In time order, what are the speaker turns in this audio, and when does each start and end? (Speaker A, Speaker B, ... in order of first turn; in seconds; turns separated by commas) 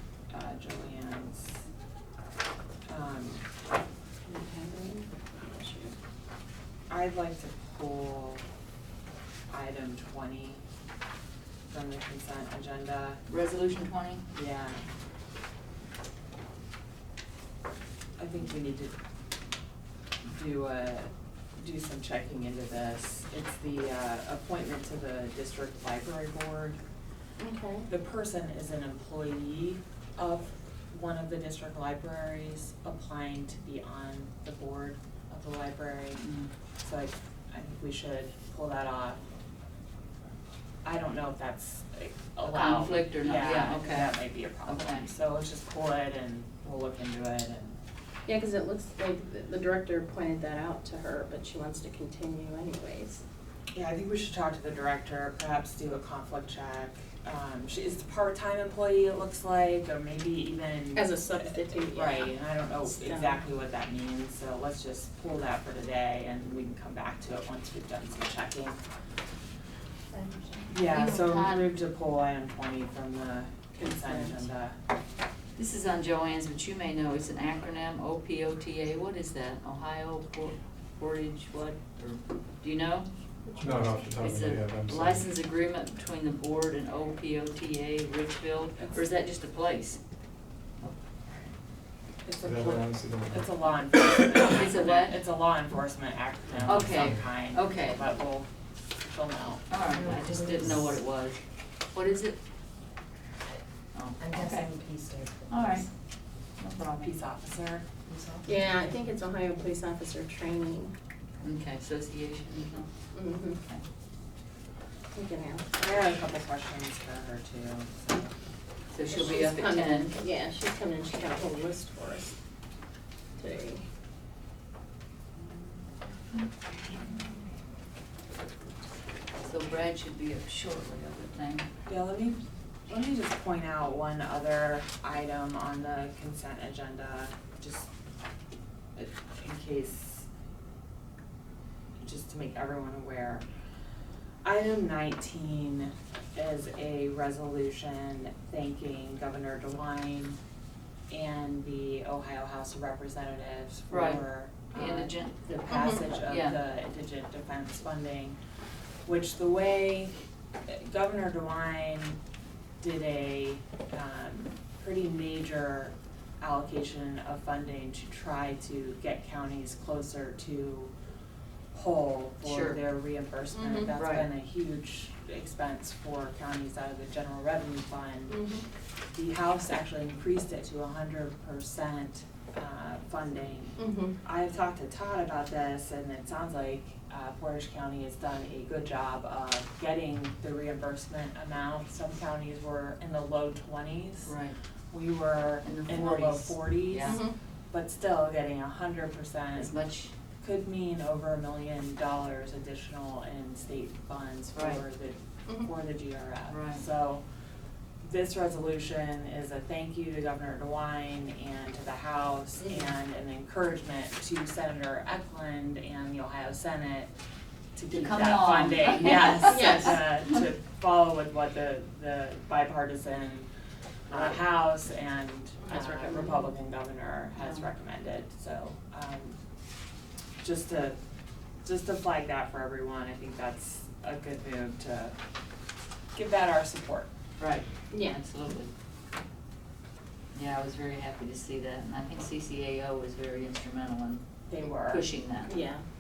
Speaker A: 0.3-1.6, Speaker A: 2.9-3.5, Speaker B: 4.2-5.9, Speaker A: 6.9-8.4, Speaker A: 9.5-10.6, Speaker A: 11.7-13.2, Speaker C: 13.3-14.2, Speaker A: 14.3-14.8, Speaker A: 18.2-18.9, Speaker A: 20.2-26.8, Speaker B: 27.4-27.9, Speaker A: 27.9-36.2, Speaker C: 36.1-36.5, Speaker A: 36.8-39.2, Speaker A: 40.8-47.8, Speaker C: 42.5-45.1, Speaker B: 48.3-53.2, Speaker A: 53.7-68.8, Speaker B: 60.9-63.4, Speaker B: 70.1-70.7, Speaker A: 70.7-74.8, Speaker C: 70.9-71.7, Speaker B: 73.8-74.4, Speaker C: 75.5-83.1, Speaker D: 83.6-85.3, Speaker C: 84.1-90.0, Speaker A: 92.2-99.6, Speaker D: 92.4-93.6, Speaker C: 94.5-95.2, Speaker D: 96.6-97.1, Speaker C: 96.6-98.0, Speaker C: 99.7-101.4, Speaker E: 99.9-100.7, Speaker C: 101.9-102.4, Speaker C: 103.9-104.7, Speaker E: 104.2-105.8, Speaker C: 105.5-105.9, Speaker C: 106.6-107.2, Speaker A: 107.0-107.8, Speaker E: 108.0-108.6, Speaker B: 108.4-110.9, Speaker C: 111.4-112.9, Speaker B: 113.1-113.6, Speaker C: 113.5-113.8, Speaker B: 115.1-115.7, Speaker A: 115.8-118.3, Speaker C: 118.9-120.1, Speaker B: 119.0-122.3, Speaker B: 123.4-123.8, Speaker C: 129.4-131.7, Speaker A: 131.9-137.9, Speaker A: 138.9-140.3, Speaker A: 142.0-143.4, Speaker A: 144.4-150.4, Speaker A: 151.1-158.4, Speaker C: 153.9-155.4, Speaker B: 155.7-156.0, Speaker C: 156.2-156.6, Speaker A: 159.0-160.1, Speaker A: 160.7-162.2, Speaker A: 162.8-170.9, Speaker A: 171.7-178.4, Speaker C: 172.4-172.8, Speaker B: 173.5-173.9, Speaker C: 173.9-174.3, Speaker B: 178.3-178.6, Speaker A: 179.1-194.3, Speaker B: 183.8-184.2, Speaker C: 194.2-194.6, Speaker A: 194.9-199.7, Speaker C: 195.6-197.2, Speaker B: 197.1-197.3, Speaker C: 199.6-200.1, Speaker A: 200.4-207.2, Speaker C: 204.5-204.8, Speaker C: 206.5-206.8, Speaker A: 208.0-217.1, Speaker A: 217.7-223.5, Speaker C: 217.9-219.9, Speaker B: 219.4-220.0, Speaker A: 224.1-229.3, Speaker B: 225.6-226.5, Speaker A: 230.4-231.0, Speaker A: 231.6-235.2, Speaker A: 236.1-237.1, Speaker C: 237.4-238.7, Speaker B: 237.9-238.2, Speaker C: 240.3-244.2, Speaker A: 244.5-245.1, Speaker C: 244.9-245.6, Speaker B: 245.4-245.8